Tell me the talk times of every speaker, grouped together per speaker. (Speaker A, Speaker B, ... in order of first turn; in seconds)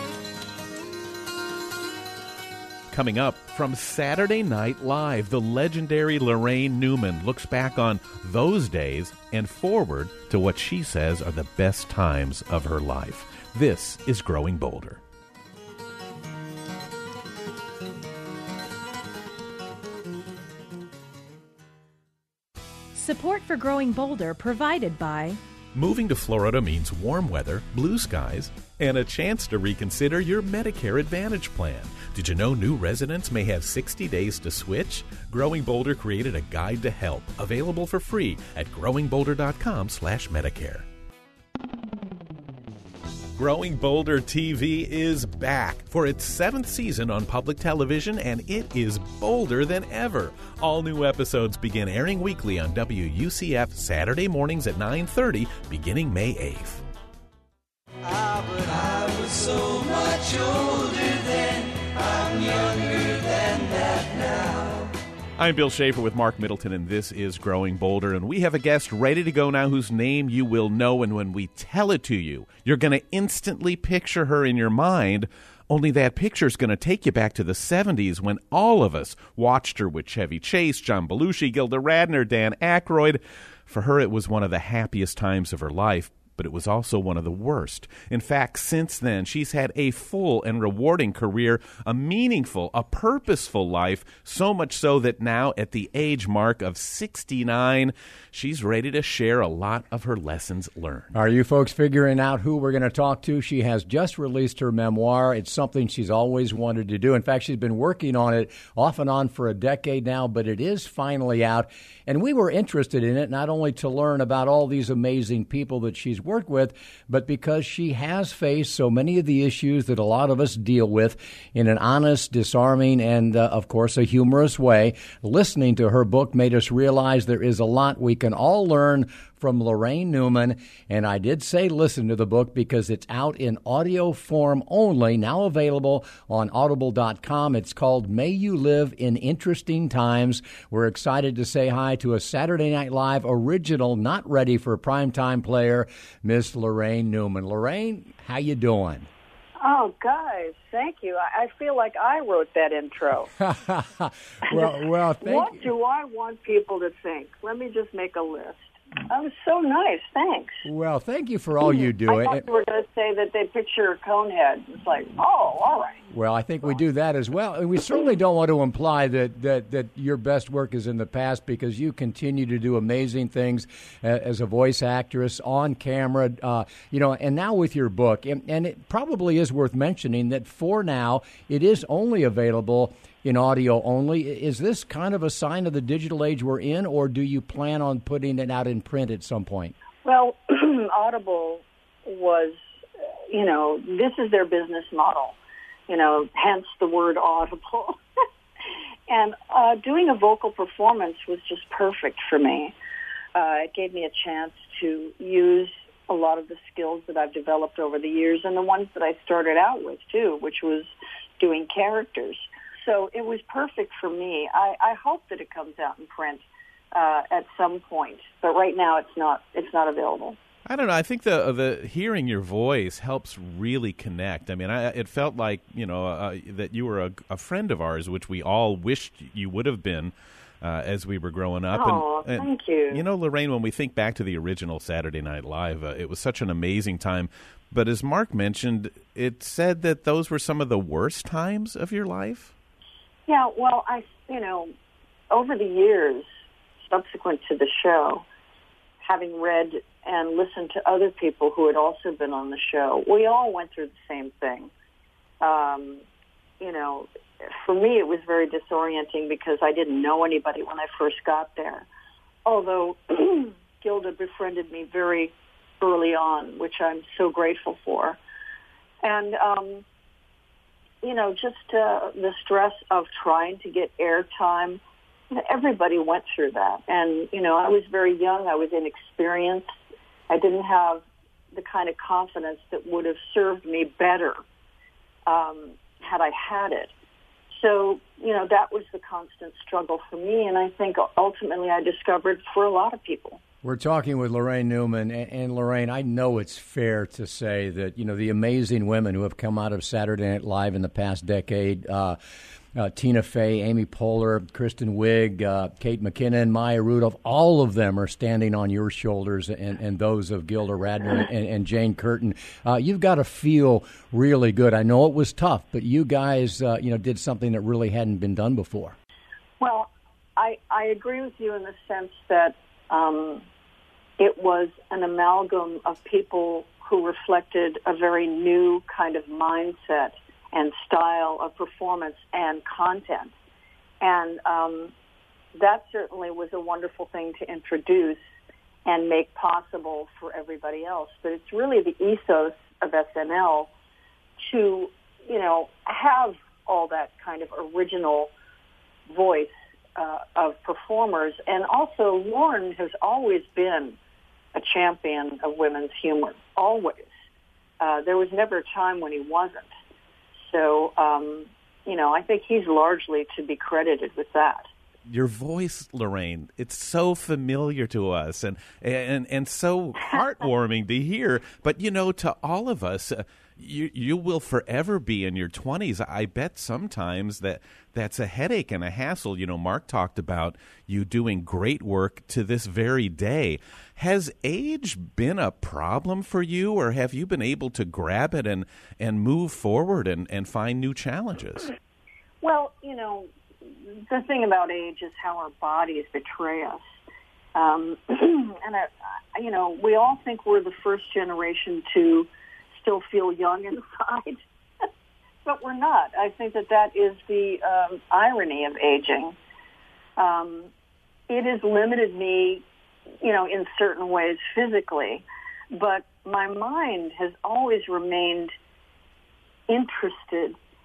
Speaker A: 2.9-15.0, 25.7-40.9, 43.4-56.8, 65.4-101.1, 220.7-242.5, 365.1-391.7
Speaker B: 22.9-25.4
Speaker C: 58.0-64.9
Speaker D: 101.1-149.1, 153.4-155.7, 160.6-162.4, 166.1-189.7, 293.6-302.2, 302.7-318.9
Speaker E: 149.6-153.3, 154.5-160.6, 161.7-166.0, 190.0-192.6, 193.3-195.4, 195.9-198.0, 199.1-202.7, 203.3-220.4, 231.7-233.0, 243.3-244.7, 245.3-246.3, 246.8-248.2, 249.0-254.7, 255.4-256.0, 256.6-257.1, 257.6-261.9, 262.4-268.2, 269.0-269.8, 271.0-274.8, 275.3-279.7, 280.3-284.4, 285.2-286.9, 287.5-293.4, 319.6-323.4, 324.2-333.3, 334.0-334.9, 335.5-338.2, 338.8-343.7, 344.4-348.3, 349.1-354.0, 354.5-357.1, 357.8-359.7, 360.4-364.7, 392.4-396.8, 397.5-404.4, 405.4-409.4, 410.2-410.7, 411.3-412.6, 413.2-418.5, 419.7-420.6